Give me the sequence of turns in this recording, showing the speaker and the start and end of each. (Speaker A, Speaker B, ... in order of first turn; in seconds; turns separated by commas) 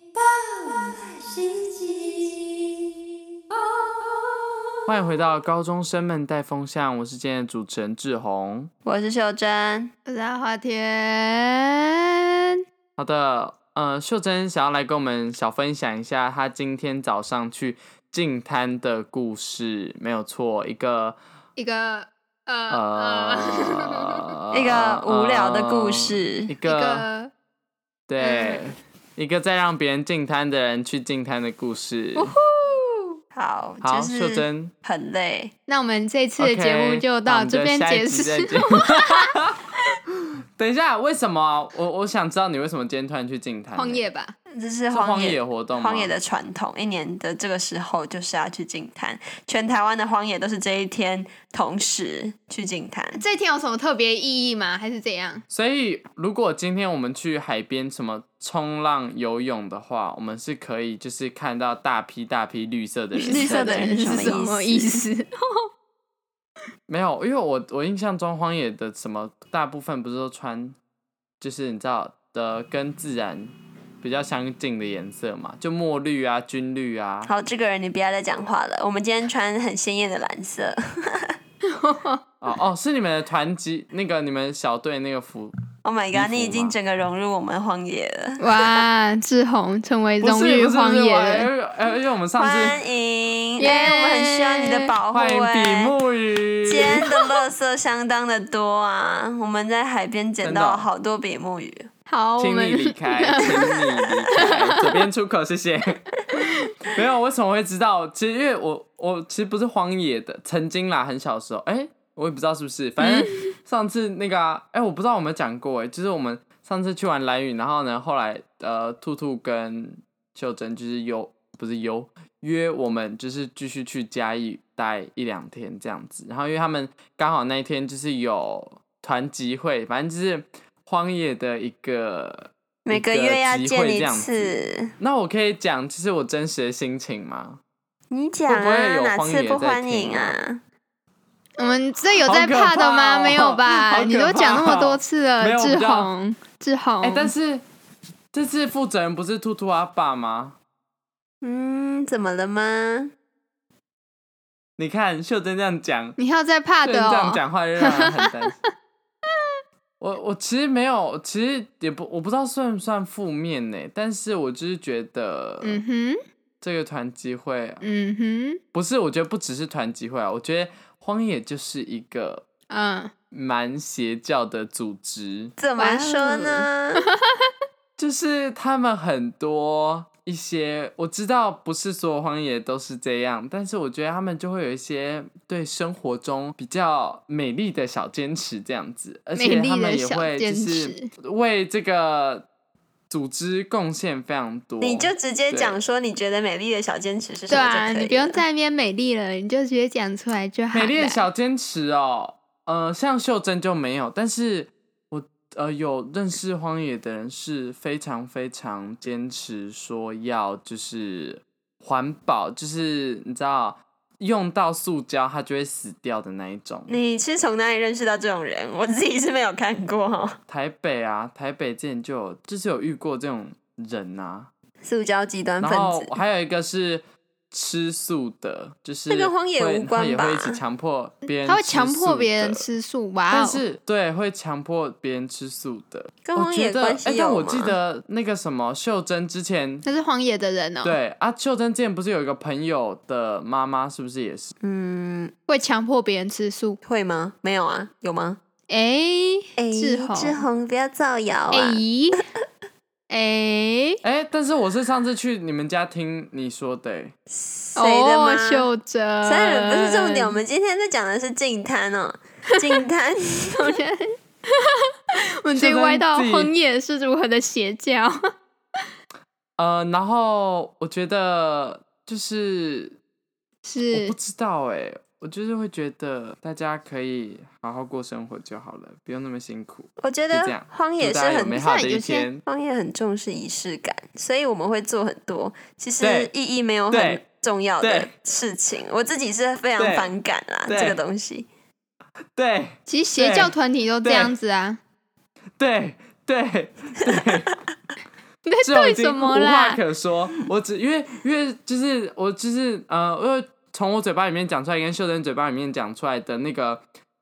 Speaker A: 0.1-2.9, Speaker A: 3.5-4.5, Speaker B: 4.9-8.7, Speaker A: 8.8-9.9, Speaker C: 10.1-11.8, Speaker B: 13.0-21.2, Speaker C: 21.6-24.2, Speaker B: 22.7-27.0, Speaker A: 24.5-26.5, Speaker C: 26.6-27.3, Speaker B: 28.1-32.3, Speaker C: 32.1-33.1, Speaker A: 33.3-35.5, Speaker B: 33.8-34.7, Speaker C: 35.7-39.3, Speaker B: 36.4-39.6, Speaker B: 40.6-44.0, Speaker C: 43.7-44.3, Speaker A: 44.5-53.2, Speaker B: 44.9-46.1, Speaker C: 53.1-55.4, Speaker B: 55.5-64.3, Speaker A: 63.2-65.0, Speaker C: 63.2-65.3, Speaker B: 66.9-70.8, Speaker B: 71.4-77.3, Speaker A: 77.2-81.3, Speaker C: 81.8-82.2, Speaker B: 82.4-85.5, Speaker A: 85.8-88.9, Speaker B: 86.1-86.7, Speaker C: 88.4-91.5, Speaker B: 90.2-92.8, Speaker A: 92.4-95.9, Speaker C: 93.6-94.8, Speaker B: 95.1-96.9, Speaker A: 96.7-101.9, Speaker B: 100.4-100.9, Speaker C: 102.1-103.7, Speaker B: 102.4-106.0, Speaker C: 104.3-105.0, Speaker B: 106.9-137.6, Speaker C: 113.0-113.3, Speaker A: 132.8-134.9, Speaker A: 138.1-140.6, Speaker B: 138.5-140.3, Speaker C: 141.6-147.3, Speaker B: 142.2-146.1, Speaker B: 147.0-147.6, Speaker B: 148.3-150.6, Speaker A: 151.4-153.1, Speaker B: 154.8-156.2, Speaker C: 156.2-158.5, Speaker B: 156.8-158.5, Speaker B: 160.0-165.8, Speaker C: 165.6-166.2, Speaker B: 166.6-167.9, Speaker C: 167.8-168.6, Speaker B: 168.7-172.4, Speaker C: 172.7-173.1, Speaker B: 173.3-175.5, Speaker A: 175.6-177.0, Speaker C: 175.8-177.5, Speaker B: 178.0-192.4, Speaker C: 189.3-191.1, Speaker B: 193.1-195.8, Speaker A: 194.8-198.4, Speaker C: 197.5-201.2, Speaker B: 200.7-216.9, Speaker A: 216.9-220.4, Speaker B: 220.5-224.5, Speaker A: 224.8-226.1, Speaker B: 225.6-232.6, Speaker A: 229.1-230.6, Speaker C: 231.4-233.6, Speaker B: 233.3-239.8, Speaker A: 236.2-237.8, Speaker C: 239.8-241.0, Speaker B: 240.8-244.5, Speaker A: 244.6-245.3, Speaker C: 245.5-246.8, Speaker A: 246.8-248.4, Speaker C: 248.7-250.4, Speaker A: 249.6-251.8, Speaker C: 251.5-252.2, Speaker C: 253.1-254.0, Speaker B: 254.0-257.1, Speaker A: 257.3-258.7, Speaker C: 257.8-260.4, Speaker A: 259.2-263.8, Speaker C: 263.6-264.0, Speaker C: 265.4-268.1, Speaker B: 265.5-266.5, Speaker B: 269.6-272.9, Speaker C: 273.6-274.1, Speaker B: 273.9-282.4, Speaker A: 280.0-291.5, Speaker C: 281.6-282.2, Speaker B: 286.0-286.3, Speaker B: 286.9-287.2, Speaker B: 287.8-288.1, Speaker B: 289.8-290.1, Speaker B: 290.7-291.0, Speaker B: 292.3-294.3, Speaker C: 292.9-294.8, Speaker B: 295.6-297.5, Speaker C: 298.4-299.8, Speaker B: 298.6-306.8